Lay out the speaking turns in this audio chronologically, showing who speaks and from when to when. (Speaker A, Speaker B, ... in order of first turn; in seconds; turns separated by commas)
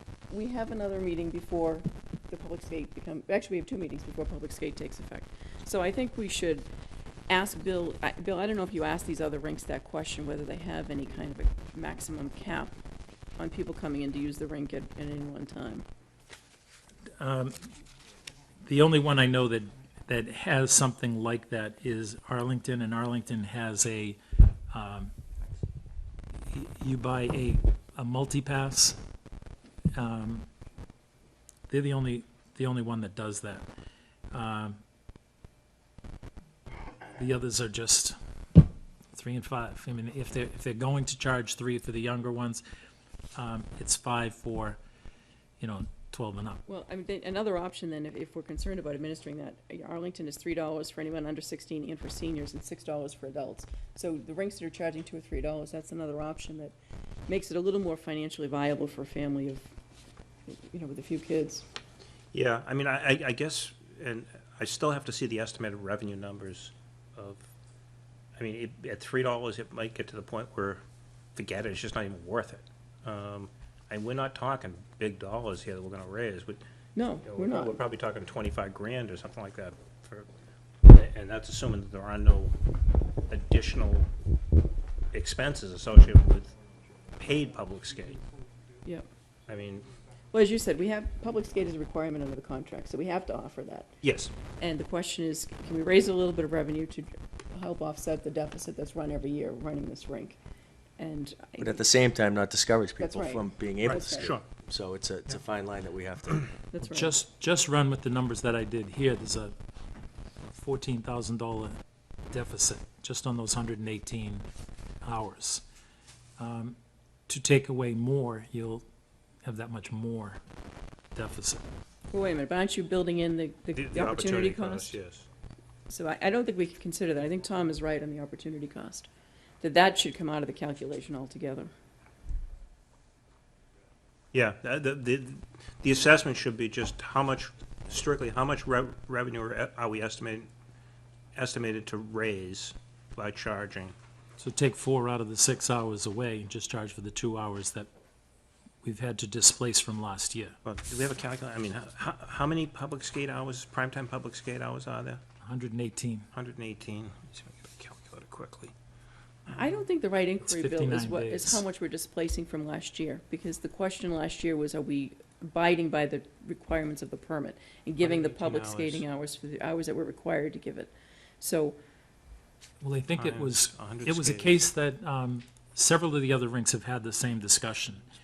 Speaker A: 0.3-6.7, Speaker A: 7.3-12.7, Speaker A: 13.4-15.8, Speaker B: 17.2-17.7, Speaker B: 18.7-24.2, Speaker B: 24.7-25.1, Speaker B: 26.5-29.0, Speaker B: 29.9-30.5, Speaker B: 31.7-33.7, Speaker B: 34.3-34.8, Speaker B: 37.2-38.1, Speaker B: 39.1-42.6, Speaker B: 43.4-44.8, Speaker B: 45.6-46.6, Speaker A: 46.7-56.8, Speaker A: 57.3-59.7, Speaker A: 60.5-61.6, Speaker C: 62.3-67.5, Speaker C: 68.3-70.8, Speaker C: 71.3-76.6, Speaker A: 76.9-77.8, Speaker C: 77.2-80.3, Speaker C: 80.8-82.5, Speaker C: 83.3-84.1, Speaker C: 85.1-86.5, Speaker C: 87.2-88.2, Speaker C: 89.5-89.9, Speaker A: 90.3-94.0, Speaker C: 94.0-94.3, Speaker A: 94.6-100.4, Speaker A: 101.0-101.8, Speaker D: 101.6-106.5, Speaker A: 103.0-104.3, Speaker C: 103.8-104.5, Speaker A: 106.7-107.1, Speaker B: 106.8-109.5, Speaker B: 110.4-111.8, Speaker B: 112.3-114.5, Speaker B: 115.0-115.6, Speaker B: 116.4-116.8, Speaker B: 117.3-118.8, Speaker B: 119.4-120.4, Speaker B: 121.1-121.6, Speaker A: 122.1-125.0, Speaker C: 123.7-125.3, Speaker A: 125.9-129.1, Speaker A: 129.6-131.7, Speaker C: 134.3-140.5, Speaker C: 141.3-143.9, Speaker B: 144.4-147.9, Speaker B: 148.8-150.6, Speaker C: 150.7-155.2, Speaker B: 155.4-156.3, Speaker C: 156.3-158.7, Speaker A: 159.5-171.8, Speaker B: 160.4-161.6, Speaker C: 168.0-169.1, Speaker B: 172.8-178.0, Speaker C: 173.1-174.6